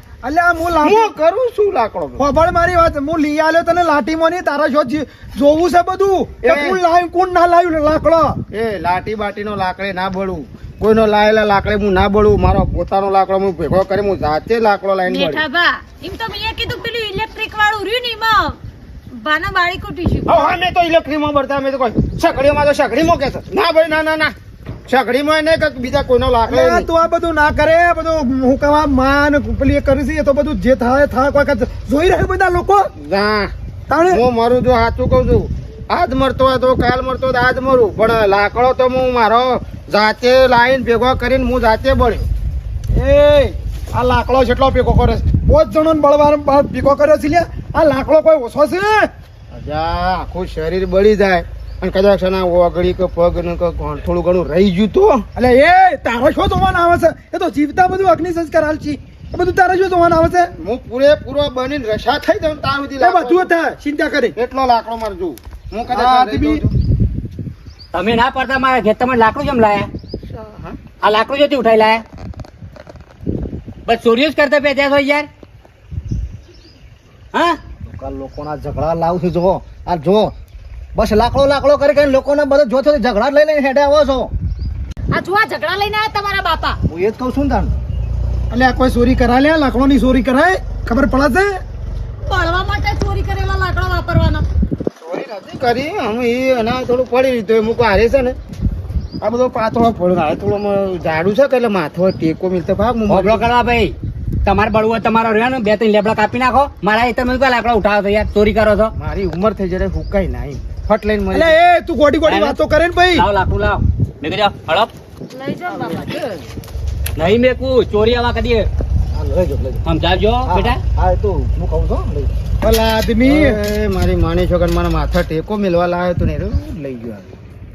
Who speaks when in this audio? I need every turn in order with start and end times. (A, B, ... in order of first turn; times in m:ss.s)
0:00.2-0:01.1 A
0:00.8-0:02.2 B
0:02.2-0:08.4 A
0:06.4-0:06.8 B
0:08.5-0:15.4 B
0:15.1-0:18.6 C
0:19.1-0:20.6 C
0:20.2-0:24.3 B
0:24.9-0:26.9 B
0:26.5-0:32.9 A
0:33.0-0:33.5 B
0:33.9-0:34.2 A
0:34.1-0:42.3 B
0:42.9-0:43.6 A
0:43.9-0:45.2 B
0:45.2-0:49.1 A
0:49.5-0:55.3 B
0:55.4-1:00.5 A
1:00.5-1:03.5 B
1:03.0-1:04.3 A
1:04.4-1:06.7 B
1:05.9-1:06.6 A
1:07.9-1:09.9 D
1:10.3-1:10.8 B
1:11.0-1:12.0 D
1:13.9-1:15.3 D
1:17.3-1:17.6 D
1:17.8-1:20.3 E
1:20.9-1:24.3 E
1:25.1-1:26.8 C
1:26.9-1:27.7 E
1:28.5-1:31.6 A
1:32.2-1:34.4 C
1:35.0-1:38.4 B
1:39.2-1:43.4 B
1:43.1-1:43.9 D
1:44.4-1:48.9 D
1:49.0-1:51.6 B
1:51.3-1:53.2 A
1:52.2-1:52.6 D
1:53.1-1:54.9 D
1:55.3-1:56.1 C
1:55.7-1:56.4 B
1:57.2-1:58.7 D
1:59.1-1:59.8 E
1:59.8-2:00.8 D
2:00.4-2:02.3 E
2:02.6-2:03.6 A
2:03.2-2:07.3 B